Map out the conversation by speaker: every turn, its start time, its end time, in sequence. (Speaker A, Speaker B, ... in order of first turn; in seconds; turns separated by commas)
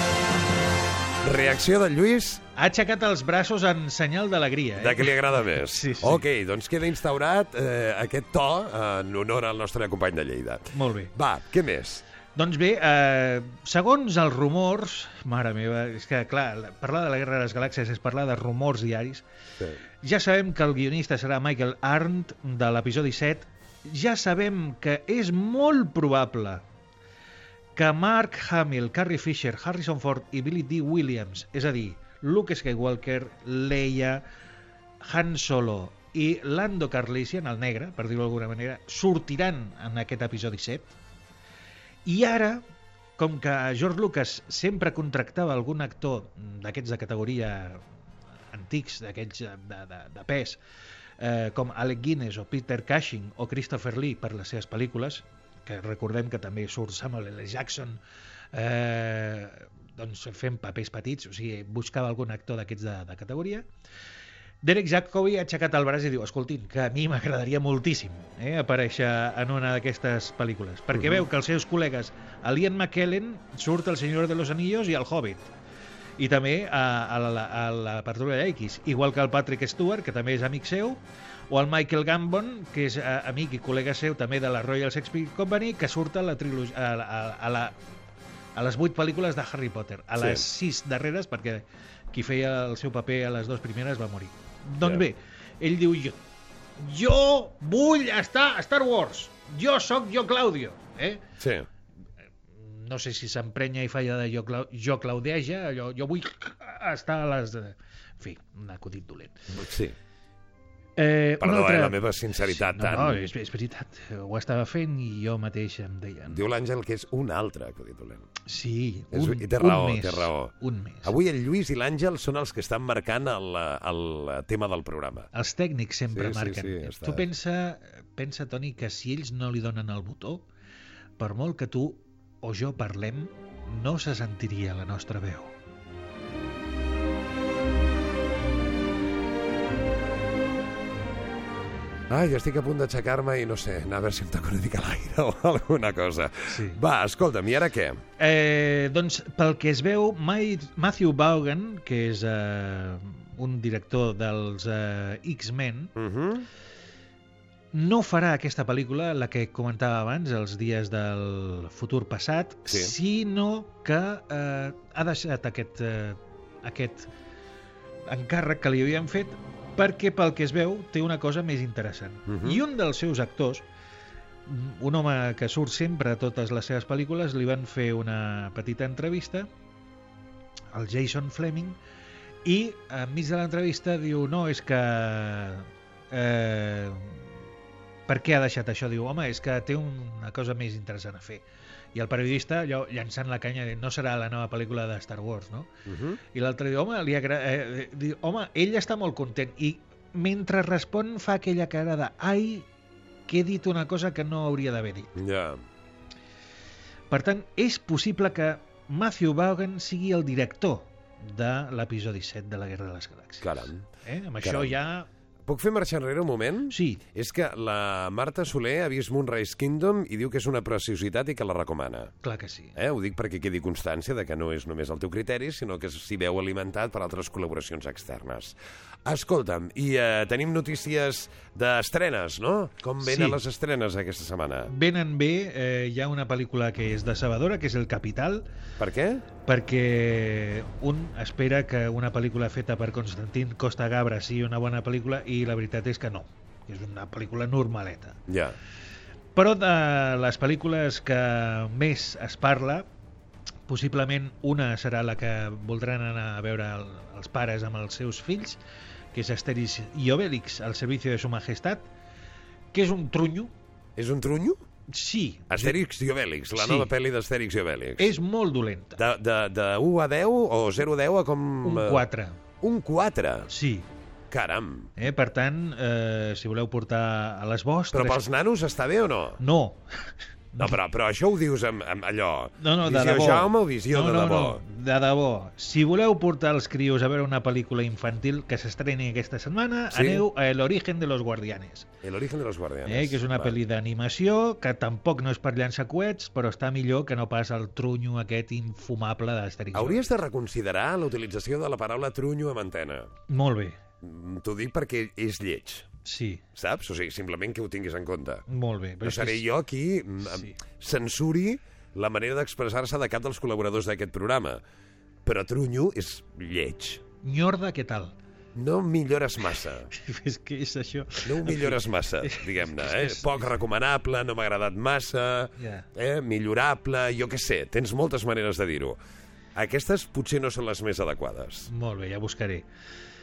Speaker A: 1.2-2.4, Speaker B: 2.6-6.2, Speaker A: 4.8-12.0, Speaker B: 10.7-11.1, Speaker B: 12.4-19.2, Speaker B: 20.0-26.6, Speaker B: 27.8-34.2, Speaker B: 35.0-41.0, Speaker B: 42.0-42.6, Speaker B: 43.2-47.8, Speaker B: 48.5-50.6, Speaker B: 51.2-58.0, Speaker B: 58.5-63.7, Speaker B: 64.6-75.5, Speaker A: 70.9-71.2, Speaker B: 76.2-87.8, Speaker B: 88.5-96.2, Speaker A: 90.2-90.5, Speaker B: 96.8-101.2, Speaker A: 101.4-101.7, Speaker B: 102.5-109.4, Speaker A: 109.5-110.0, Speaker B: 111.0-116.4, Speaker A: 111.4-113.3, Speaker A: 116.3-118.3, Speaker B: 118.5-121.1, Speaker A: 119.1-120.5, Speaker A: 121.0-125.3, Speaker B: 125.3-130.4, Speaker A: 126.1-127.3, Speaker B: 131.2-135.5, Speaker A: 142.1-148.0, Speaker B: 146.5-146.8, Speaker B: 148.2-155.9, Speaker A: 156.0-156.5, Speaker B: 157.7-167.1, Speaker A: 162.7-162.9, Speaker B: 168.1-173.7, Speaker A: 172.3-172.6, Speaker B: 174.5-179.5, Speaker B: 180.7-181.8, Speaker B: 182.4-187.3, Speaker B: 188.1-191.4, Speaker B: 191.9-195.7, Speaker A: 195.9-196.2, Speaker B: 196.3-202.7, Speaker B: 203.3-205.2, Speaker A: 205.2-205.6, Speaker B: 207.1-215.1, Speaker A: 213.4-213.8, Speaker A: 214.4-214.8, Speaker A: 215.5-222.1, Speaker B: 216.7-217.0, Speaker B: 222.2-222.8, Speaker A: 222.8-234.7, Speaker B: 233.0-233.4, Speaker B: 234.7-238.5, Speaker A: 238.8-239.2, Speaker B: 239.5-248.2, Speaker A: 248.3-248.6, Speaker B: 249.3-252.9, Speaker B: 253.7-258.6, Speaker B: 259.1-261.9, Speaker B: 262.7-263.5, Speaker A: 264.0-264.6, Speaker B: 264.9-265.8, Speaker A: 265.5-268.1, Speaker B: 266.5-266.9, Speaker B: 268.0-269.0, Speaker A: 269.0-272.0, Speaker B: 271.6-272.4, Speaker A: 272.6-273.5, Speaker B: 273.5-273.9, Speaker A: 274.3-274.9, Speaker B: 275.0-278.2, Speaker A: 277.9-279.4, Speaker B: 279.4-280.8, Speaker A: 280.6-284.6, Speaker B: 282.6-291.9, Speaker A: 289.9-290.2, Speaker A: 292.0-293.6, Speaker B: 292.9-300.1, Speaker A: 299.7-303.1, Speaker B: 303.3-303.8, Speaker A: 304.0-305.9, Speaker B: 306.1-306.4, Speaker A: 306.6-308.4, Speaker B: 308.5-309.4, Speaker A: 309.0-314.6, Speaker B: 310.2-310.6, Speaker A: 315.2-317.0, Speaker B: 317.2-318.1, Speaker A: 318.6-319.9, Speaker B: 319.9-323.3, Speaker A: 321.2-329.0, Speaker B: 325.6-325.9, Speaker A: 329.6-331.7, Speaker B: 331.7-332.6